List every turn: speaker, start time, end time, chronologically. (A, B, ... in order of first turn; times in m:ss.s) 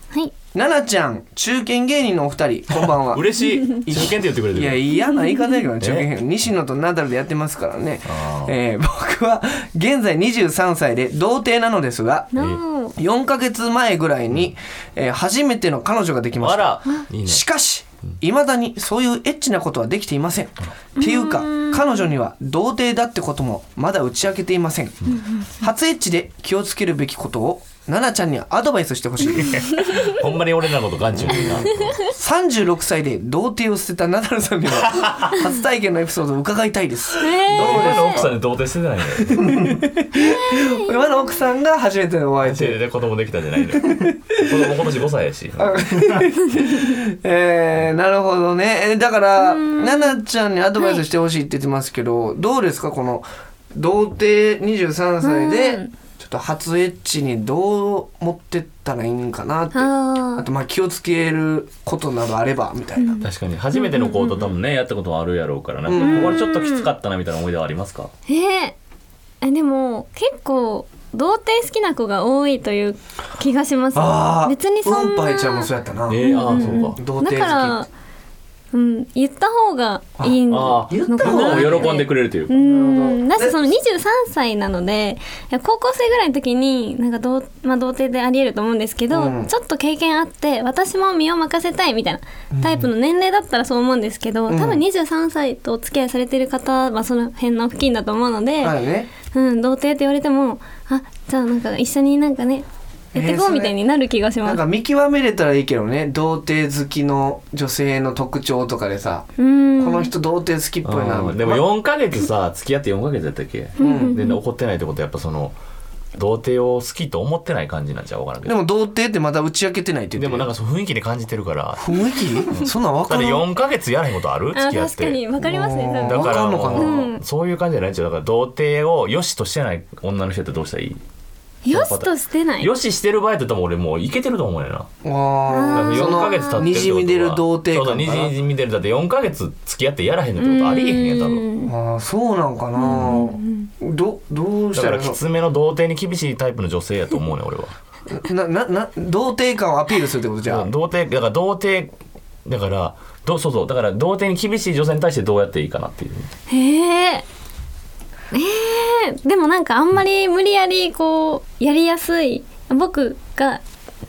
0:00.5-0:12.3 A
0:02.7-0:04.8 B
0:05.8-0:06.1 B
0:08.1-0:08.6 B
0:12.3-0:13.0 C
0:13.0-0:29.6 A
0:16.4-0:17.4 B
0:21.0-0:21.8 C
0:29.4-0:32.0 B
0:31.3-0:38.4 A
0:37.2-0:38.2 C
0:37.5-0:39.8 B
0:39.2-0:42.8 A
0:40.2-0:40.9 C
0:42.4-0:46.3 B
0:43.7-0:44.7 A
0:45.6-1:03.2 A
0:49.4-0:50.2 C
0:55.2-0:55.9 C
0:59.7-1:00.5 C
1:03.0-1:04.4 C
1:03.2-1:08.1 B
1:05.9-1:06.4 A
1:06.0-1:06.9 C
1:08.3-1:08.8 C
1:09.4-1:17.9 C
1:13.9-1:17.8 A
1:16.1-1:17.0 B
1:18.7-1:38.8 C
1:20.2-1:23.6 A
1:20.5-1:22.5 B
1:29.1-1:29.5 A
1:32.5-1:32.9 A
1:34.5-1:34.8 A
1:38.6-1:39.1 A
1:39.3-1:44.6 C
1:43.1-1:43.7 A
1:44.4-1:49.3 A
1:49.4-1:50.1 C
1:49.8-1:51.7 A
1:50.8-1:55.6 B
1:53.8-1:54.4 C
1:53.8-1:54.2 A
1:56.2-1:58.6 B
1:58.4-2:00.5 A
2:00.2-2:05.2 B
2:01.8-2:03.4 A
2:04.6-2:07.2 C
2:05.4-2:07.0 A
2:06.1-2:11.0 B
2:11.6-2:12.7 C
2:11.7-2:14.9 B
2:15.0-2:18.3 A
2:15.5-2:16.6 C
2:15.7-2:21.4 B
2:20.4-2:21.7 C
2:21.7-2:25.2 A
2:22.8-2:23.7 C
2:22.9-2:23.2 B
2:24.7-2:27.7 B
2:28.1-2:30.7 A
2:30.4-2:31.9 B
2:32.4-2:36.3 B
2:36.5-2:37.2 C
2:38.3-2:43.6 C